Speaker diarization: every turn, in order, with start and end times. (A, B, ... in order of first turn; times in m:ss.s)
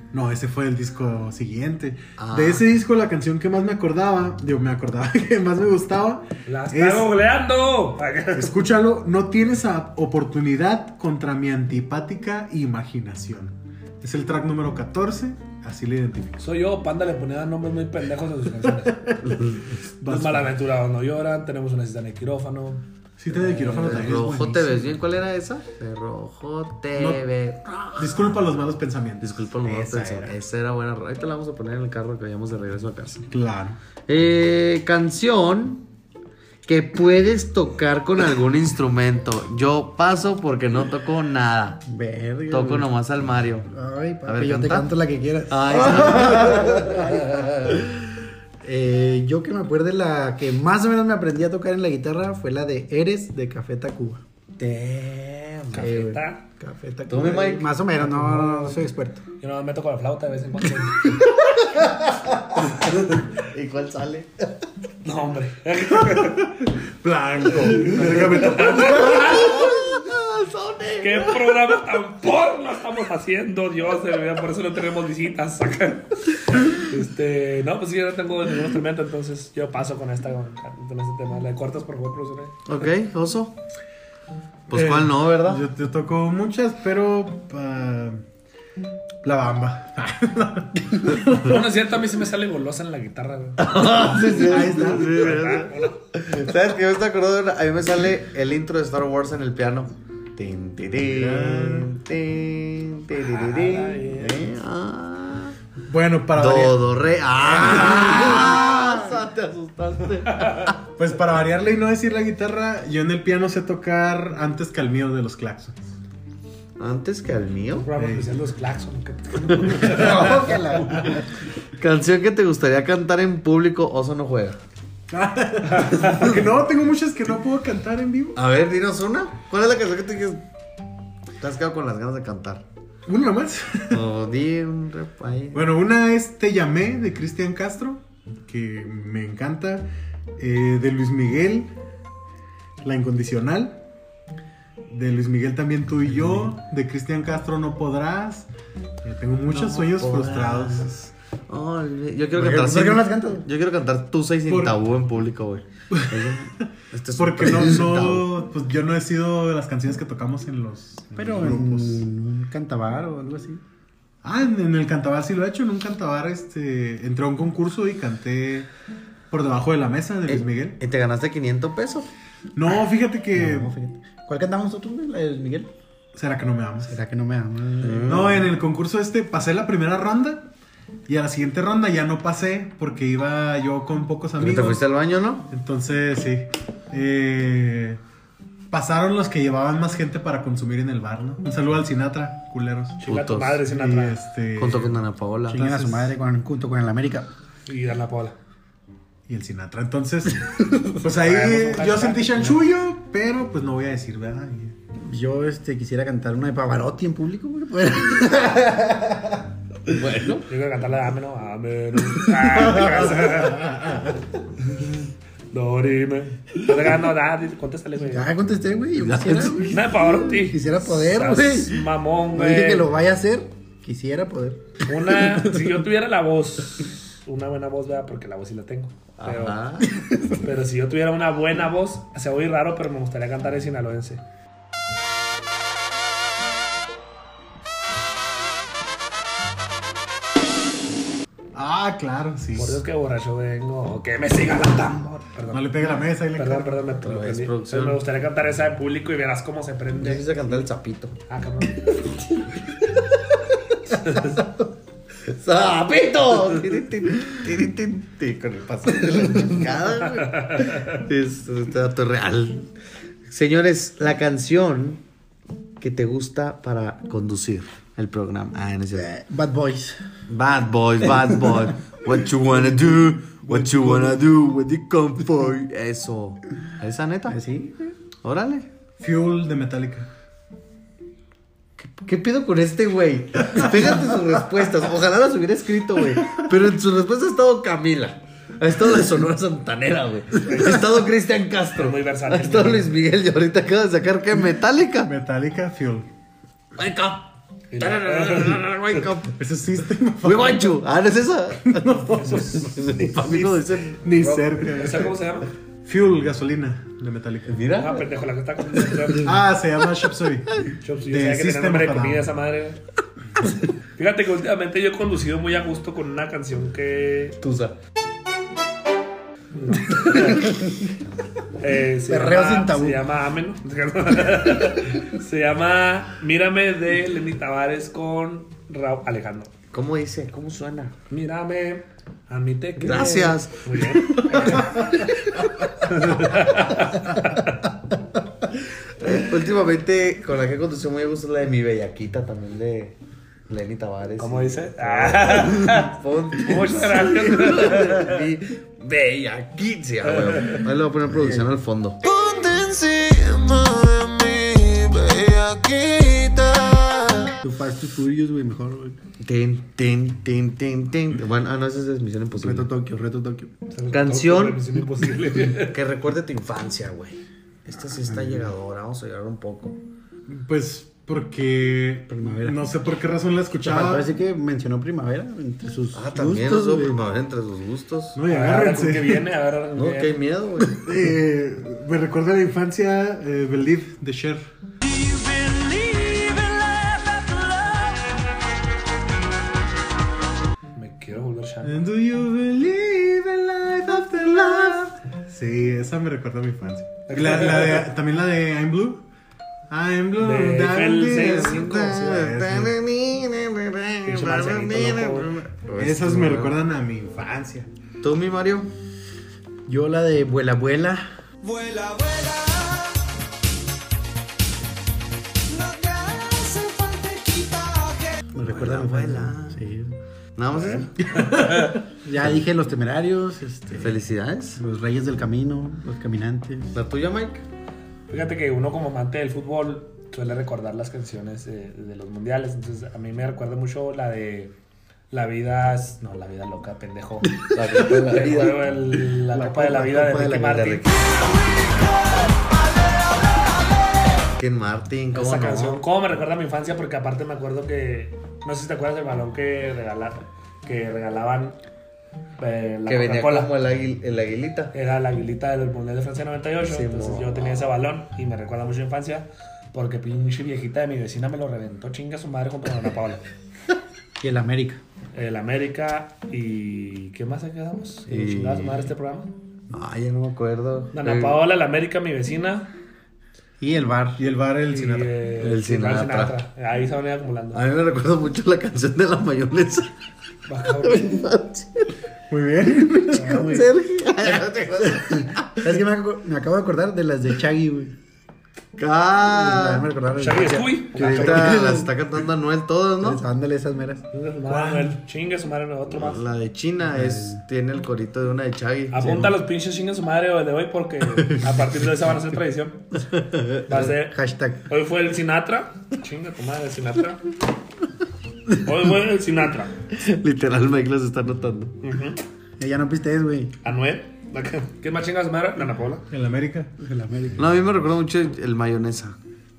0:00.1-0:07.1 A
0:02.2-0:02.6 B
0:06.4-0:08.6 C
0:08.4-0:16.4 A
0:16.4-0:19.0 C
0:18.7-0:19.5 A
0:19.2-0:19.7 B
0:20.0-0:20.6 A
0:20.0-0:24.0 C
0:23.2-0:24.9 A
0:23.6-0:28.4 B
0:26.9-0:27.2 A
0:28.0-0:30.4 A
0:29.2-0:33.3 B
0:33.3-0:33.8 A
0:34.1-0:35.8 B
0:36.6-0:41.8 B
0:41.8-0:42.9 D
0:42.5-0:43.7 B
0:43.7-0:47.4 D
0:44.2-0:44.9 B
0:45.5-0:47.9 B
0:48.6-0:54.2 D
0:54.6-0:55.8 B
0:55.7-0:56.4 C
0:55.7-0:59.2 D
0:57.1-0:57.7 B
0:58.0-0:58.8 C
0:59.4-1:01.2 C
1:02.3-1:04.5 B
1:05.0-1:06.6 C
1:06.0-1:09.8 A
1:07.8-1:09.7 C
1:07.9-1:11.7 B
1:11.0-1:22.6 C
1:22.7-1:23.6 B
1:24.7-1:25.6 B
1:24.7-1:28.2 A
1:29.2-1:31.6 A
1:31.2-1:36.0 C
1:33.6-1:45.6 B
1:34.3-1:35.2 A
1:41.0-1:41.9 A
1:43.2-1:44.5 C
1:45.9-1:49.2 A
1:46.3-1:50.8 B
1:51.0-1:55.8 A
1:56.8-1:57.9 B
1:57.7-2:01.2 C
1:58.0-1:58.4 A
1:59.5-1:59.8 B
1:59.8-2:01.2 D
2:01.8-2:04.6 B
2:05.1-2:08.4 A
2:05.8-2:06.1 C
2:08.4-2:10.4 B
2:11.4-2:12.6 B
2:13.1-2:14.0 A
2:13.9-2:15.7 B
2:15.5-2:21.7 A
2:22.8-2:23.8 A
2:24.9-2:28.5 A
2:29.0-2:30.9 A
2:29.5-2:38.3 B
2:32.4-2:33.4 D
2:34.5-2:34.8 A
2:35.9-2:36.4 A
2:37.1-2:42.0 A
2:41.1-2:43.6 D
2:44.2-2:48.7 A
2:49.3-2:50.8 A
2:50.3-2:52.1 B
2:52.5-2:53.7 A
2:53.4-2:55.7 D
2:56.1-2:57.0 A
2:56.8-2:58.2 D
2:57.8-2:58.5 B
2:58.0-3:00.5 A
3:01.1-3:04.8 A
3:04.4-3:05.5 B
3:05.5-3:08.0 A
3:08.7-3:13.0 A
3:13.0-3:14.2 C
3:13.0-3:13.6 B
3:13.7-3:15.0 A
3:14.6-3:15.7 B
3:15.5-3:17.3 D
3:15.5-3:16.1 A
3:17.7-3:18.4 C
3:19.3-3:24.8 A
3:21.1-3:22.5 C
3:25.0-3:29.4 D
3:29.9-3:30.5 B
3:30.5-3:33.8 C
3:35.5-3:38.3 C
3:38.1-3:45.5 D
3:39.0-3:39.8 B
3:39.7-3:42.9 C
3:44.8-3:49.6 C
3:49.2-3:49.9 B
3:49.9-3:50.4 D
3:50.4-3:54.2 C
4:01.5-4:02.8 A
4:02.5-4:05.8 C
4:05.5-4:06.8 A
4:06.4-4:10.6 C
4:07.0-4:08.0 B
4:10.0-4:11.2 B
4:11.3-4:12.2 C
4:13.9-4:14.4 C
4:14.2-4:14.6 B
4:15.2-4:22.7 B
4:20.2-4:21.0 C
4:23.3-4:25.0 B
4:25.8-4:29.1 B
4:29.0-4:30.0 D
4:30.3-4:37.4 B
4:33.4-4:34.2 D
4:37.3-4:37.9 D
4:38.2-4:38.7 B
4:39.0-4:40.1 A
4:41.8-4:55.1 B
4:50.4-4:50.8 C
4:51.7-4:52.9 C
4:55.0-4:56.1 A
4:56.8-4:59.4 B
4:57.7-4:59.0 C
4:59.4-5:00.8 A
5:00.2-5:04.6 B
5:01.6-5:05.1 A
5:02.2-5:02.9 C
5:04.7-5:05.5 C
5:05.8-5:07.6 A
5:07.5-5:08.1 B
5:07.7-5:09.3 C
5:09.2-5:12.3 A
5:10.8-5:12.8 C
5:13.9-5:17.4 C
5:17.4-5:17.7 B
5:19.5-5:20.5 C
5:21.6-5:29.5 C
5:22.1-5:23.0 D
5:29.7-5:31.0 B
5:31.1-5:35.1 C
5:32.8-5:34.9 B
5:35.6-5:37.7 C
5:39.0-5:43.0 B
5:43.5-5:57.4 B
5:44.2-5:48.2 C
5:50.1-5:50.6 C
5:51.1-5:51.4 D
5:57.4-5:59.0 D
5:59.2-6:02.7 B
6:02.4-6:03.5 D
6:03.7-6:05.8 C
6:03.9-6:04.6 B
6:05.5-6:09.8 B
6:08.1-6:08.5 D
6:10.3-6:14.1 A
6:12.1-6:12.6 D
6:13.6-6:17.0 D
6:15.9-6:18.2 B
6:18.1-6:19.2 A
6:18.3-6:20.2 C
6:19.8-6:20.8 B
6:20.8-6:24.5 A
6:24.8-6:28.2 E
6:30.7-6:31.8 C
6:31.6-6:39.0 A
6:34.0-6:34.9 B
6:37.1-6:37.9 C
6:39.7-6:42.8 A
6:40.2-6:42.3 C
6:41.1-6:46.5 B
6:44.0-6:45.3 C
6:45.8-6:47.7 A
6:48.0-6:48.7 B
6:49.7-6:51.1 D
6:51.4-6:53.0 E
6:55.5-6:58.2 E
6:58.3-6:59.9 D
6:58.4-6:59.6 B
7:00.4-7:01.0 B
7:01.0-7:01.8 A
7:01.1-7:01.8 C
7:02.0-7:04.0 D
7:03.8-7:04.6 B
7:04.6-7:06.7 D
7:06.7-7:07.4 B
7:08.1-7:14.5 C
7:15.1-7:20.9 C
7:17.5-7:18.8 B
7:19.3-7:20.6 D
7:20.4-7:21.1 B
7:22.3-7:23.5 E
7:24.4-7:25.8 B
7:25.1-7:31.6 C
7:32.4-7:33.5 C
7:32.8-7:34.7 B
7:34.7-7:43.2 C
7:36.6-7:37.7 B
7:44.2-7:44.8 D
7:45.1-7:49.3 C
7:48.1-7:48.9 B
7:49.7-7:51.4 B
7:50.9-7:52.7 C
7:53.6-7:54.2 D
7:54.2-7:55.1 A
7:54.7-7:57.6 C
7:55.4-7:56.4 B
7:57.5-7:59.9 B
8:00.5-8:01.2 C
8:00.8-8:01.9 B
8:02.3-8:03.4 A
8:02.9-8:05.7 B
8:03.1-8:03.7 D
8:05.0-8:07.9 D
8:08.8-8:09.9 B
8:09.3-8:11.9 D
8:10.2-8:11.6 C
8:10.4-8:13.2 B
8:13.0-8:14.0 D
8:14.1-8:16.2 C
8:14.5-8:14.9 A
8:15.9-8:19.3 B
8:16.9-8:17.4 D
8:18.9-8:22.9 C
8:21.2-8:21.6 B
8:23.1-8:23.9 B
8:23.6-8:24.2 C
8:23.7-8:24.6 D
8:24.7-8:27.2 C
8:28.6-8:29.8 C
8:29.9-8:31.8 B
8:31.8-8:32.2 C
8:32.6-8:33.5 D
8:33.6-8:36.0 C
8:36.1-8:36.7 A
8:36.8-8:37.5 D
8:37.4-8:39.2 B